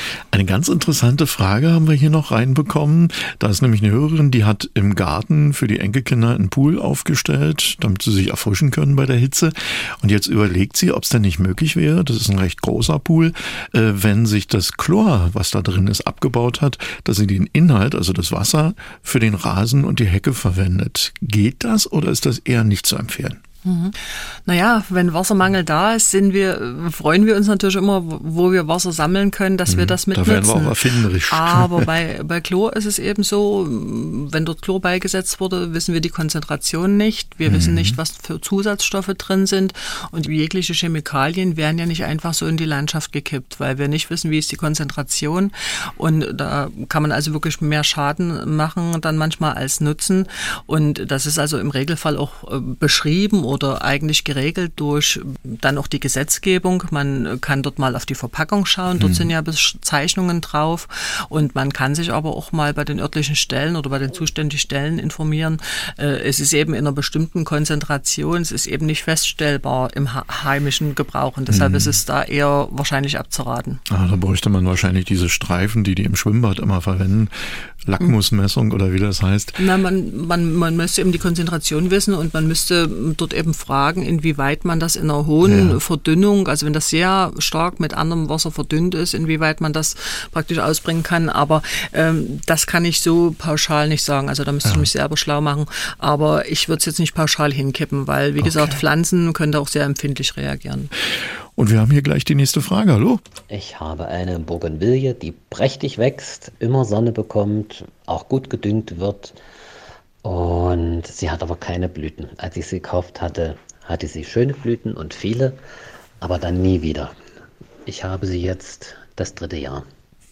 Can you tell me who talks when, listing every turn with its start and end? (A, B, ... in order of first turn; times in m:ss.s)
0:00.3-0:23.4 A
0:23.6-1:13.8 B
0:29.7-0:31.9 A
0:37.4-0:38.0 A
0:59.0-0:59.3 A
1:11.5-1:12.0 A
1:13.9-1:19.6 A
1:19.6-1:40.9 B
1:25.4-1:25.8 A
1:34.6-1:34.9 A
1:38.4-1:38.8 A
1:41.6-1:43.2 A
1:43.5-1:49.4 C
1:50.2-1:55.6 C
1:56.2-1:57.2 C
1:57.9-1:59.8 C